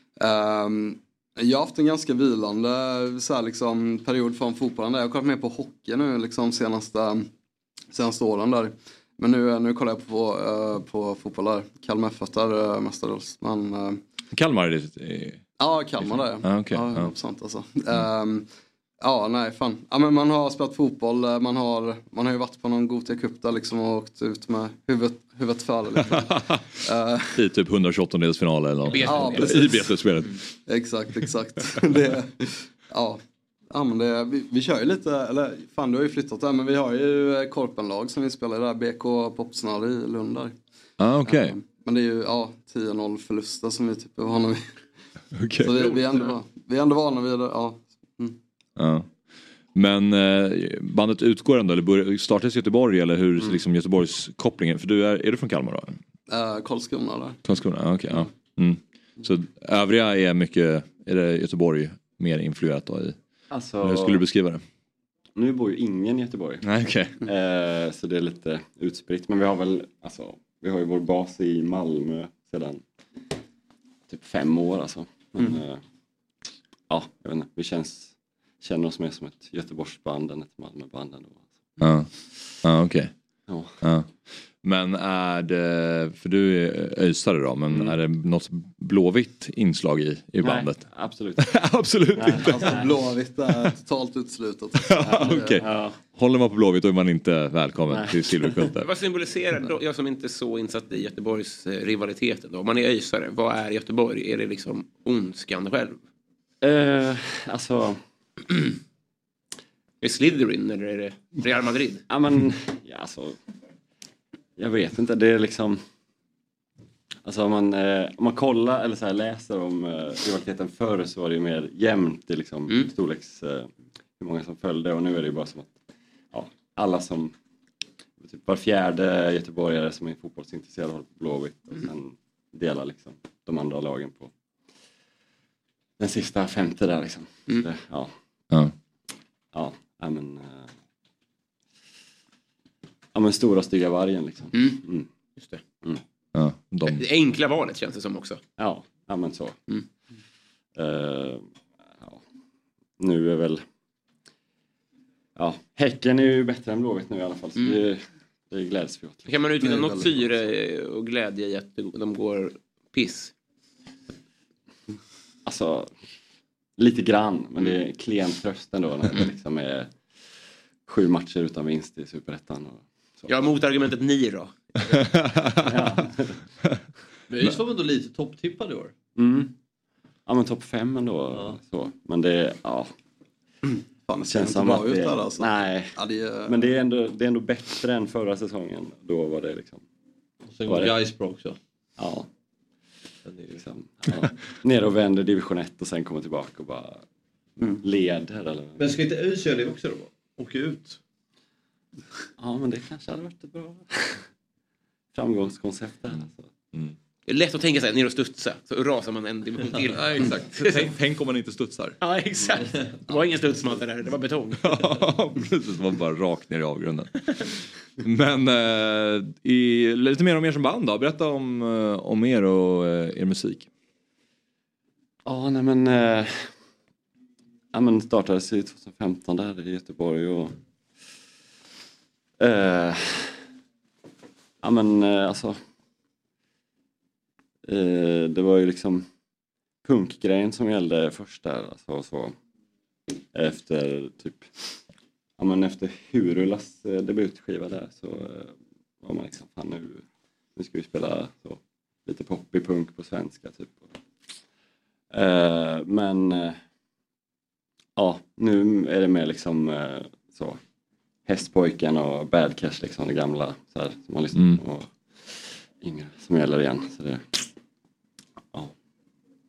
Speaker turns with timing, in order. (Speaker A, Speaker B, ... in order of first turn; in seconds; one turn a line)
Speaker A: 0.2-7.3
Speaker A: 7.9-14.0
Speaker B: 14.3-15.4
Speaker A: 15.6-18.4
Speaker B: 16.0-17.1
Speaker A: 19.0-27.4
Speaker B: 26.1-26.4
Speaker B: 27.3-30.4
Speaker C: 28.9-29.6
Speaker A: 29.1-29.9
Speaker A: 30.7-40.5
Speaker B: 41.0-41.5
Speaker A: 41.2-44.6
Speaker B: 45.3-45.9
Speaker A: 45.6-48.4
Speaker B: 48.8-49.1
Speaker B: 49.7-56.0
Speaker A: 56.3-57.4
Speaker B: 57.5-63.2
Speaker D: 63.5-64.2
Speaker B: 63.8-64.6
Speaker D: 65.3-66.6
Speaker B: 66.6-67.2
Speaker D: 67.2-72.8
Speaker D: 74.1-75.8
Speaker D: 76.9-81.5
Speaker B: 81.8-82.1
Speaker B: 82.6-83.1
Speaker D: 83.5-83.8
Speaker B: 83.8-84.1
Speaker B: 84.6-90.8
Speaker D: 87.7-88.0
Speaker D: 90.4-91.5
Speaker B: 91.4-92.8
Speaker D: 92.2-93.1
Speaker A: 92.4-95.6
Speaker B: 94.8-98.9
Speaker D: 95.0-96.0
Speaker D: 97.9-98.7
Speaker C: 98.8-106.0
Speaker D: 106.6-108.0
Speaker C: 110.0-112.0
Speaker D: 112.1-113.4
Speaker D: 114.6-115.8
Speaker D: 117.2-125.8
Speaker D: 126.3-127.3
Speaker D: 128.2-134.3
Speaker D: 136.0-138.1
Speaker D: 139.5-140.7
Speaker D: 143.1-145.1
Speaker C: 144.5-144.8
Speaker B: 146.3-147.0
Speaker C: 146.9-148.4
Speaker D: 148.6-149.6
Speaker D: 150.8-151.4
Speaker D: 153.0-153.6
Speaker D: 155.3-159.4
Speaker C: 159.3-163.3
Speaker A: 159.6-160.1
Speaker D: 165.4-165.9
Speaker D: 166.8-169.9
Speaker D: 170.8-173.3
Speaker C: 173.3-174.5
Speaker B: 175.2-175.6
Speaker D: 175.6-176.3
Speaker E: 177.3-178.9
Speaker D: 179.2-179.5
Speaker D: 180.2-182.9
Speaker A: 184.1-186.6
Speaker D: 184.3-189.8
Speaker E: 190.5-191.6
Speaker D: 190.7-191.0
Speaker D: 192.0-192.3
Speaker E: 193.2-193.6
Speaker D: 193.5-197.0
Speaker D: 197.8-198.9
Speaker E: 198.8-201.0
Speaker D: 202.4-204.2
Speaker D: 205.1-206.5
Speaker C: 207.3-210.9
Speaker B: 210.1-212.0
Speaker C: 212.0-214.9
Speaker B: 214.6-217.4
Speaker B: 218.0-223.7
Speaker D: 225.2-226.5
Speaker D: 227.7-230.5
Speaker D: 232.4-233.4
Speaker D: 234.6-235.6
Speaker D: 237.7-239.1
Speaker D: 239.8-242.3
Speaker D: 243.3-244.5
Speaker D: 245.4-250.0
Speaker D: 250.6-253.9
Speaker D: 255.1-256.6
Speaker D: 257.9-260.6
Speaker D: 261.2-267.4